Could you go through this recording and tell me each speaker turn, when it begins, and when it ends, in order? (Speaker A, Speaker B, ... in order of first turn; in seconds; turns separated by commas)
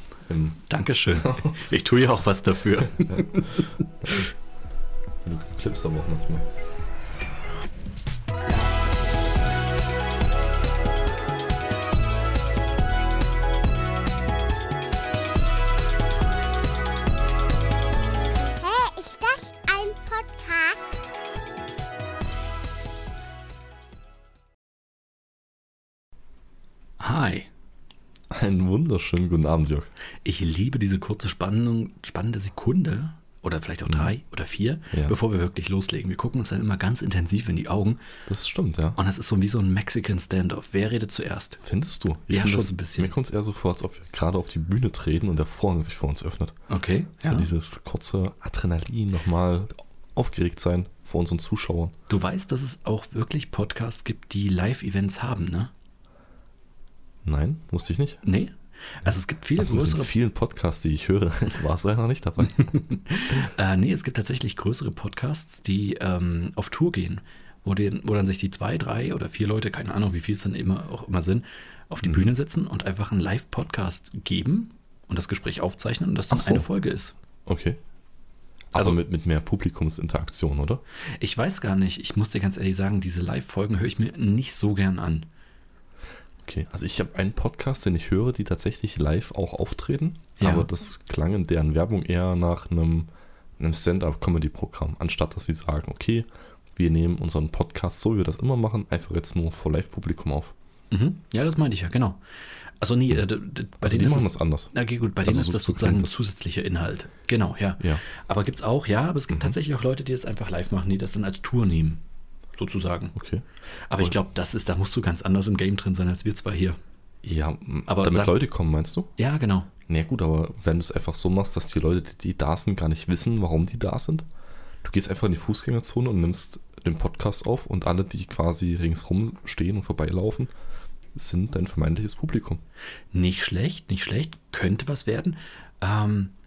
Speaker A: 0.3-1.6, Speaker B: 0.7-3.7, Speaker A: 5.2-6.5, Speaker C: 18.6-21.0, Speaker B: 27.0-27.5, Speaker A: 28.3-29.9, Speaker B: 30.2-38.0, Speaker A: 38.3-39.0, Speaker B: 39.0-41.6, Speaker A: 41.6-46.6, Speaker B: 42.3-43.1, Speaker B: 46.7-47.5, Speaker A: 47.2-51.9, Speaker B: 52.1-55.7, Speaker A: 57.2-58.2, Speaker B: 58.2-60.1, Speaker A: 59.6-63.4, Speaker B: 62.7-77.2, Speaker A: 76.3-76.7, Speaker A: 77.5-77.8, Speaker A: 78.7-80.8, Speaker B: 81.2-85.3, Speaker A: 86.4-100.5, Speaker B: 90.4-90.7, Speaker B: 100.9-102.2, Speaker B: 102.8-112.0, Speaker A: 103.8-106.1, Speaker A: 109.3-109.6, Speaker B: 112.6-113.2, Speaker A: 113.2-113.5, Speaker B: 113.9-116.8, Speaker A: 117.2-119.1, Speaker B: 117.9-118.4, Speaker B: 119.2-119.7, Speaker A: 119.9-124.3, Speaker A: 124.8-130.5, Speaker A: 131.1-132.6, Speaker B: 133.1-136.3